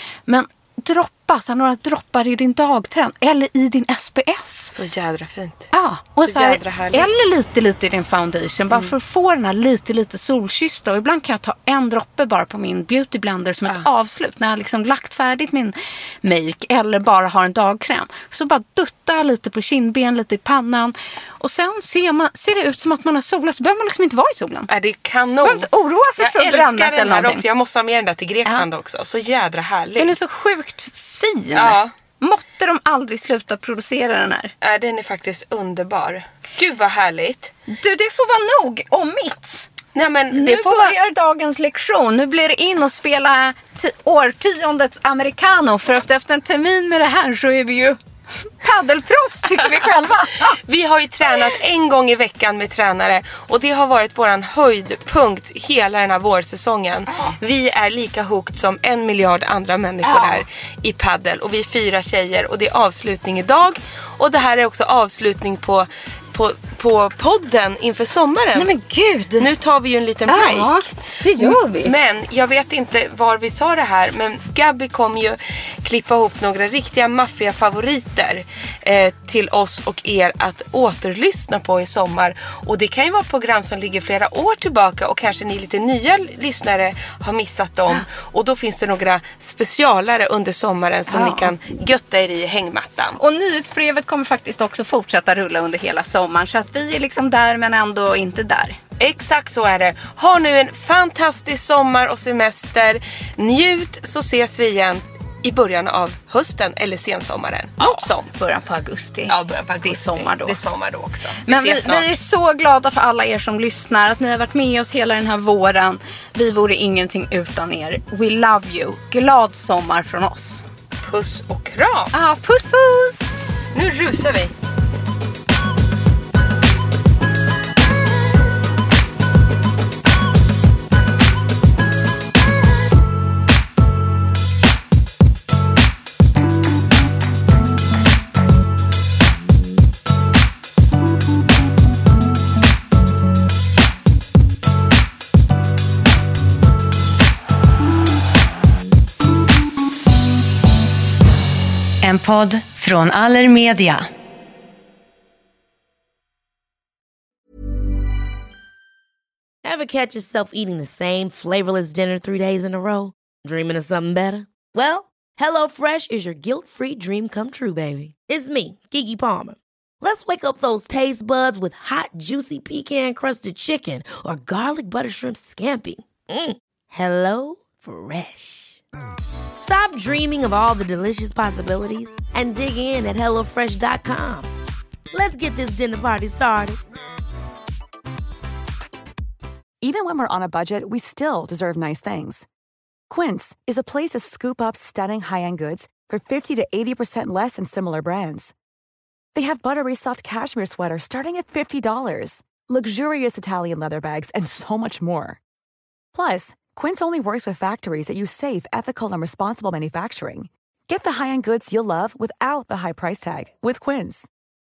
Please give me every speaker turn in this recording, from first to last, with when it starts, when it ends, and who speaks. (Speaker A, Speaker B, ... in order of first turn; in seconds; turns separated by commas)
Speaker A: 0.3-4.7, Speaker B: 4.7-7.1, Speaker A: 5.7-24.7, Speaker B: 24.7-30.1, Speaker A: 25.4-27.4, Speaker A: 30.0-34.5, Speaker B: 31.5-31.9, Speaker B: 34.6-37.5, Speaker A: 37.7-39.7, Speaker B: 39.9-41.0, Speaker A: 40.3-50.6, Speaker B: 50.6-68.7, Speaker A: 60.0-60.4, Speaker A: 68.5-69.5, Speaker B: 69.4-93.2, Speaker A: 70.3-71.9, Speaker A: 91.1-91.5, Speaker A: 93.2-98.8, Speaker B: 99.0-108.3, Speaker A: 107.8-110.6, Speaker B: 109.3-112.1, Speaker A: 111.5-120.7, Speaker B: 121.0-122.1, Speaker A: 122.1-123.7, Speaker B: 123.7-124.5, Speaker C: 152.0-154.1, Speaker D: 159.6-178.8, Speaker D: 179.6-184.5, Speaker D: 185.1-186.8, Speaker E: 189.8-192.5, Speaker E: 193.1-198.5, Speaker E: 199.3-205.4, Speaker E: 206.1-214.3